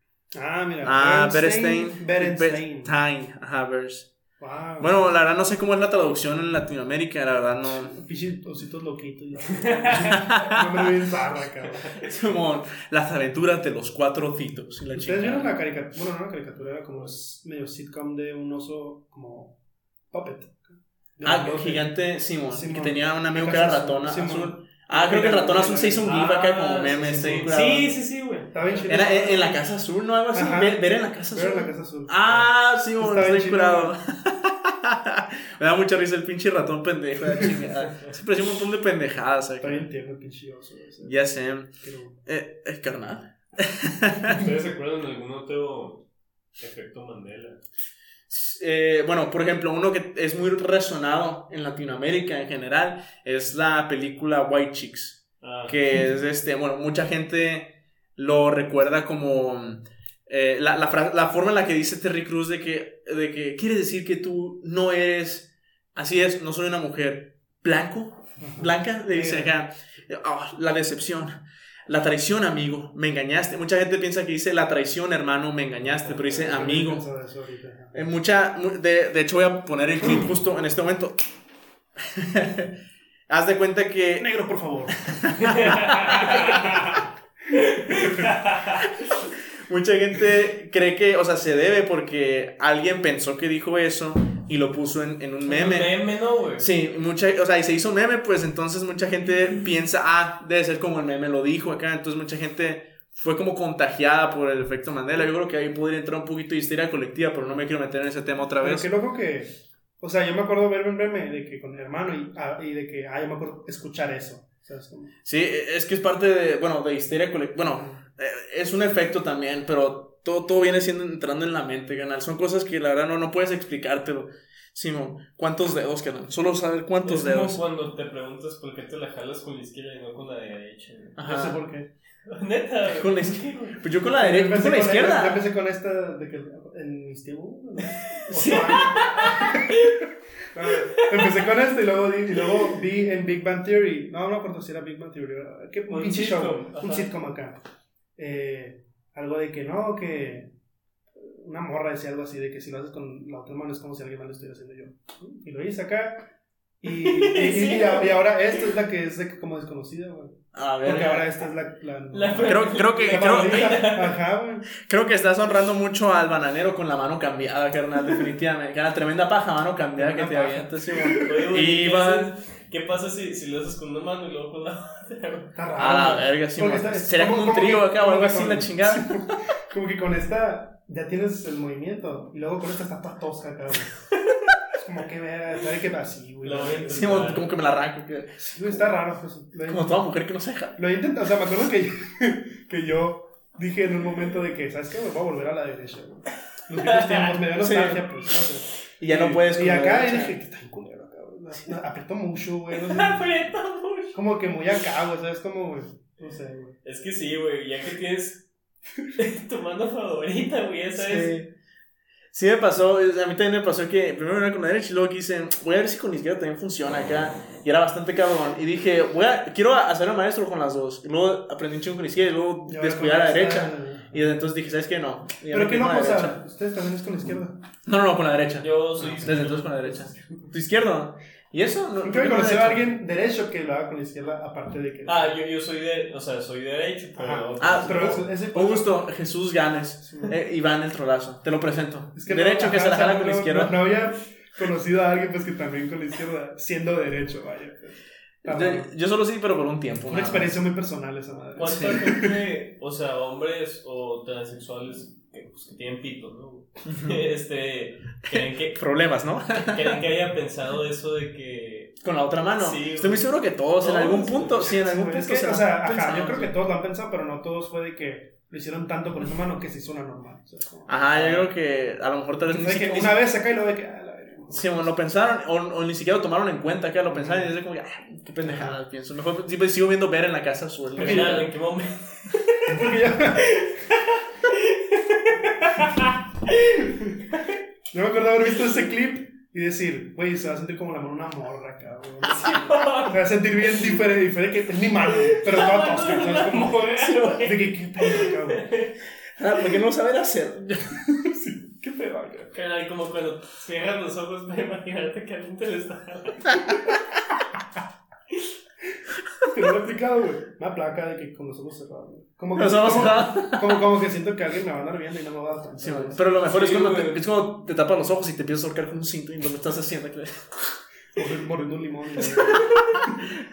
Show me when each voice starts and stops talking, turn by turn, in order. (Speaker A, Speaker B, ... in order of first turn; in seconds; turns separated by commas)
Speaker A: 0.3-2.9, Speaker B: 0.8-4.1, Speaker A: 4.4-5.0, Speaker B: 4.8-8.0, Speaker A: 7.8-12.0, Speaker C: 9.5-10.2, Speaker B: 10.1-10.9, Speaker B: 12.0-15.5, Speaker A: 14.9-19.6, Speaker A: 20.1-21.9, Speaker B: 21.2-27.9, Speaker A: 22.5-26.1, Speaker C: 26.0-28.9, Speaker A: 26.9-27.6, Speaker A: 28.5-29.6, Speaker B: 28.9-39.9, Speaker A: 30.3-33.9, Speaker A: 39.6-42.2, Speaker B: 41.0-44.4, Speaker C: 44.3-46.0, Speaker C: 46.6-47.6, Speaker B: 48.3-77.0, Speaker C: 55.4-55.8, Speaker A: 68.4-69.5, Speaker A: 76.0-78.0, Speaker B: 77.9-81.2, Speaker B: 82.0-82.7, Speaker B: 83.3-84.3, Speaker A: 84.2-85.1, Speaker B: 85.1-86.8, Speaker C: 85.3-88.9, Speaker A: 86.0-86.6, Speaker A: 87.9-88.2, Speaker B: 89.7-96.0, Speaker C: 95.4-96.7, Speaker B: 96.6-108.9, Speaker A: 108.6-115.1, Speaker B: 115.2-127.6, Speaker C: 127.0-131.2, Speaker B: 131.2-131.6, Speaker A: 131.2-131.9, Speaker C: 132.3-133.8, Speaker B: 132.9-135.4, Speaker A: 134.1-139.7, Speaker C: 138.2-140.0, Speaker B: 138.3-139.3, Speaker A: 140.5-147.6, Speaker C: 140.7-141.4, Speaker C: 145.9-147.1, Speaker A: 148.2-150.5, Speaker A: 151.2-156.3, Speaker A: 156.8-164.7, Speaker C: 156.9-158.1, Speaker B: 160.5-161.3, Speaker C: 162.1-164.2, Speaker B: 162.4-163.8, Speaker B: 164.7-172.3, Speaker A: 170.0-171.3, Speaker C: 171.2-175.5, Speaker A: 175.5-183.9, Speaker B: 175.8-179.3, Speaker A: 184.8-187.4, Speaker C: 186.4-187.5, Speaker B: 186.9-188.8, Speaker A: 188.4-190.0, Speaker B: 189.7-190.8, Speaker A: 190.8-203.2, Speaker C: 196.8-197.4, Speaker B: 197.6-198.1, Speaker B: 199.0-200.4, Speaker C: 202.7-204.2, Speaker A: 204.1-206.8, Speaker C: 206.8-208.5, Speaker C: 209.2-211.3, Speaker B: 211.0-211.5, Speaker B: 212.3-226.4, Speaker A: 222.7-224.2, Speaker A: 225.5-227.6, Speaker B: 227.8-232.9, Speaker C: 228.6-230.1, Speaker A: 229.0-229.4, Speaker A: 232.0-235.3, Speaker C: 235.1-238.2, Speaker A: 237.2-239.1, Speaker B: 237.6-243.8, Speaker A: 240.0-240.3, Speaker A: 242.1-248.9, Speaker B: 248.4-250.6, Speaker A: 250.1-252.3, Speaker C: 251.6-258.8, Speaker B: 251.7-252.0, Speaker B: 256.9-257.2, Speaker B: 258.3-260.0, Speaker C: 259.6-262.0, Speaker B: 262.0-266.5, Speaker C: 262.6-263.3, Speaker C: 263.8-264.7, Speaker A: 264.5-271.4, Speaker B: 270.9-273.2, Speaker C: 271.1-271.4, Speaker A: 272.5-274.9, Speaker B: 274.5-281.4, Speaker A: 277.1-277.5, Speaker A: 278.4-278.8, Speaker A: 281.0-281.5, Speaker C: 281.0-286.8, Speaker A: 282.7-283.6, Speaker A: 287.9-298.7, Speaker C: 292.2-293.9, Speaker C: 295.1-298.9, Speaker B: 299.4-301.0, Speaker A: 301.1-302.5, Speaker C: 302.5-306.7, Speaker A: 309.4-316.2, Speaker B: 312.5-313.8, Speaker B: 315.8-320.7, Speaker C: 316.4-317.2, Speaker A: 321.1-323.2, Speaker B: 322.2-323.3